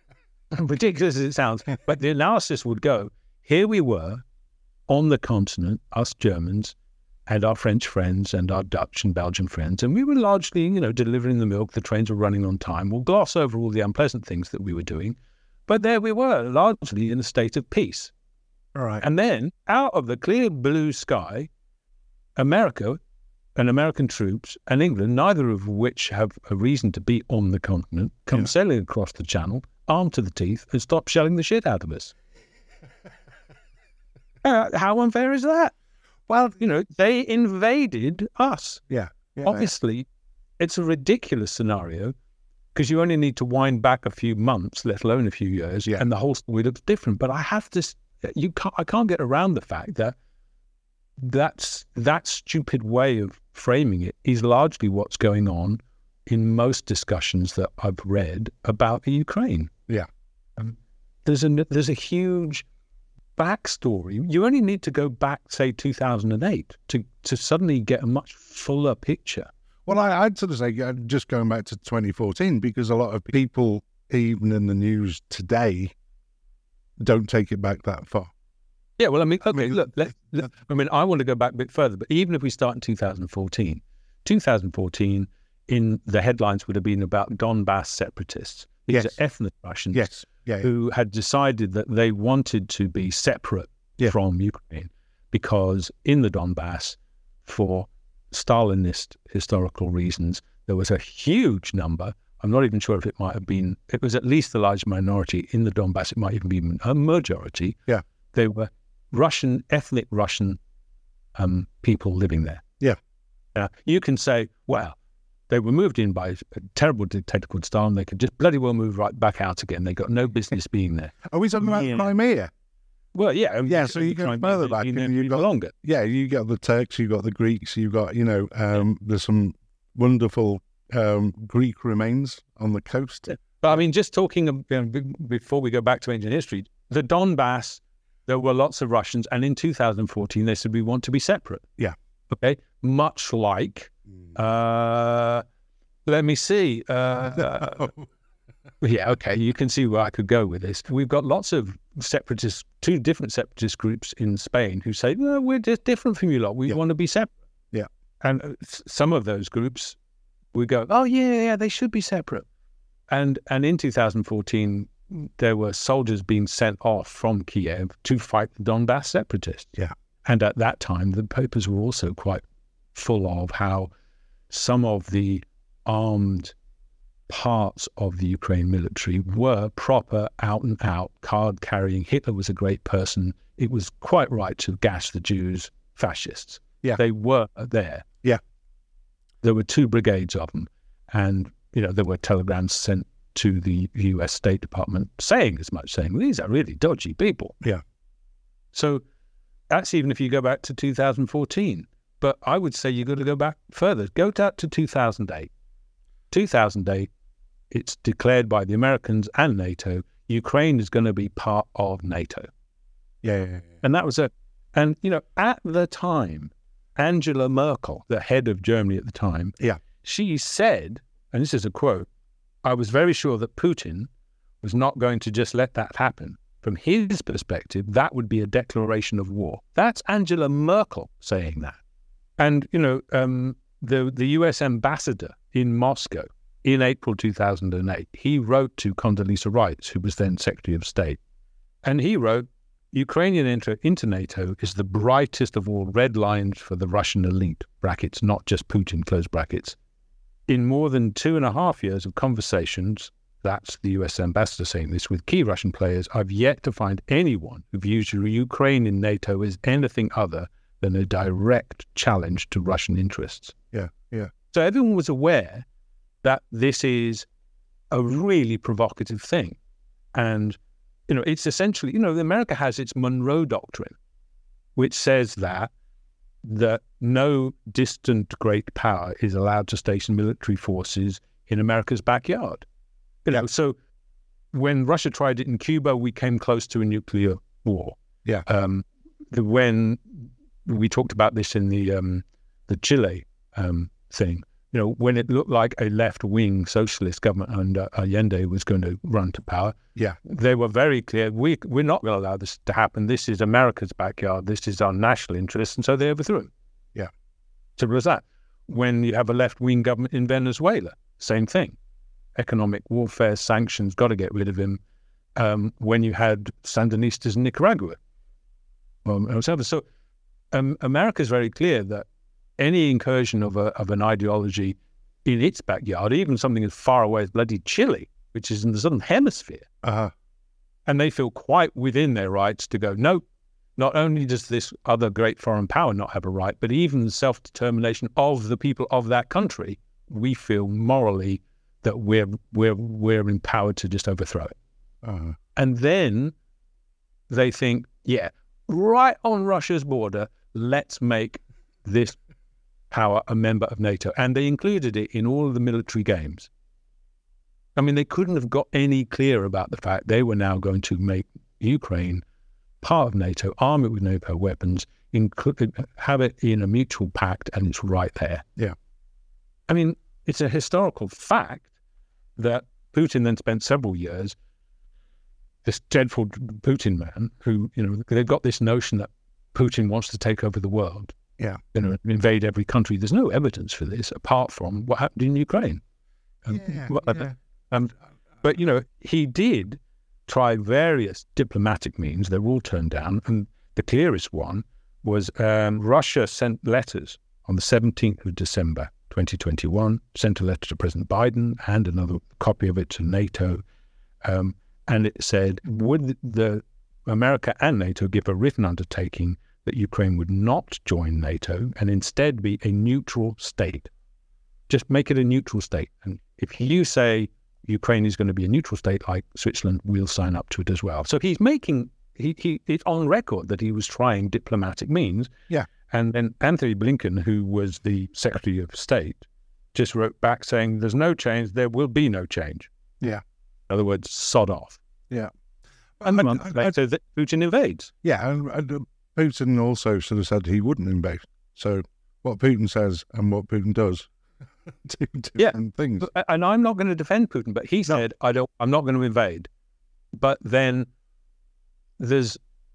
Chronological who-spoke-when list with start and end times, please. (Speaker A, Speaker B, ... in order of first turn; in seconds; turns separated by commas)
Speaker A: 0.5-4.2, Speaker A: 4.9-6.8, Speaker A: 7.3-15.2, Speaker A: 15.7-18.1, Speaker B: 18.8-19.0, Speaker A: 19.0-21.5, Speaker A: 22.4-23.0, Speaker A: 23.6-32.1, Speaker A: 34.4-35.7, Speaker B: 36.3-36.5, Speaker A: 36.4-38.8, Speaker B: 38.9-39.7, Speaker A: 39.4-40.1, Speaker A: 40.6-42.1, Speaker A: 42.8-50.1, Speaker A: 51.2-59.7, Speaker A: 60.6-62.7, Speaker A: 63.4-69.5, Speaker B: 69.9-75.9, Speaker B: 77.0-78.3, Speaker A: 79.0-90.1, Speaker B: 79.5-79.8, Speaker B: 88.9-89.1, Speaker B: 89.9-90.7, Speaker A: 90.6-107.8, Speaker A: 108.3-110.6, Speaker A: 111.4-112.6, Speaker A: 113.5-115.0, Speaker A: 115.5-122.1, Speaker B: 121.2-122.5, Speaker A: 123.1-125.7, Speaker B: 123.7-133.3, Speaker A: 133.6-141.7, Speaker A: 142.3-145.4, Speaker A: 146.1-147.9, Speaker B: 147.6-148.0, Speaker A: 148.8-157.3, Speaker A: 158.2-160.0, Speaker A: 160.5-162.5, Speaker A: 163.1-172.4, Speaker A: 172.9-173.9, Speaker A: 174.5-176.5, Speaker A: 177.3-188.1, Speaker A: 189.4-197.6, Speaker A: 198.7-199.0, Speaker A: 199.7-205.5, Speaker A: 206.3-207.1, Speaker A: 207.7-212.5, Speaker B: 213.2-213.8, Speaker A: 213.8-222.1, Speaker A: 222.6-224.1, Speaker A: 224.6-231.8, Speaker A: 232.4-241.2, Speaker A: 241.8-249.8, Speaker A: 250.5-263.6, Speaker B: 263.7-264.3, Speaker A: 264.5-265.6, Speaker A: 266.2-267.3, Speaker A: 267.9-269.6, Speaker A: 270.1-274.0, Speaker A: 274.8-275.7, Speaker A: 276.4-282.7, Speaker A: 283.2-283.8, Speaker A: 284.5-306.5, Speaker A: 307.8-311.8, Speaker A: 312.4-314.8, Speaker A: 315.4-318.0, Speaker A: 319.1-319.9, Speaker A: 320.5-322.1, Speaker A: 322.6-329.7, Speaker B: 329.8-330.1, Speaker A: 330.9-333.2, Speaker A: 333.8-344.6, Speaker B: 345.0-345.4, Speaker A: 345.6-346.3, Speaker A: 347.3-352.2, Speaker A: 352.9-356.5, Speaker A: 357.8-362.2, Speaker A: 362.8-368.4, Speaker A: 369.7-371.7, Speaker A: 372.4-374.4, Speaker A: 375.6-381.2, Speaker A: 381.7-385.8, Speaker A: 386.4-403.6, Speaker B: 386.5-387.3, Speaker A: 404.2-413.9, Speaker A: 414.7-425.3, Speaker A: 425.9-432.7, Speaker A: 433.7-434.8, Speaker B: 436.0-436.7, Speaker A: 436.0-437.9, Speaker B: 438.0-444.1, Speaker B: 444.8-446.1, Speaker A: 445.4-449.5, Speaker A: 450.1-450.9, Speaker A: 452.0-452.4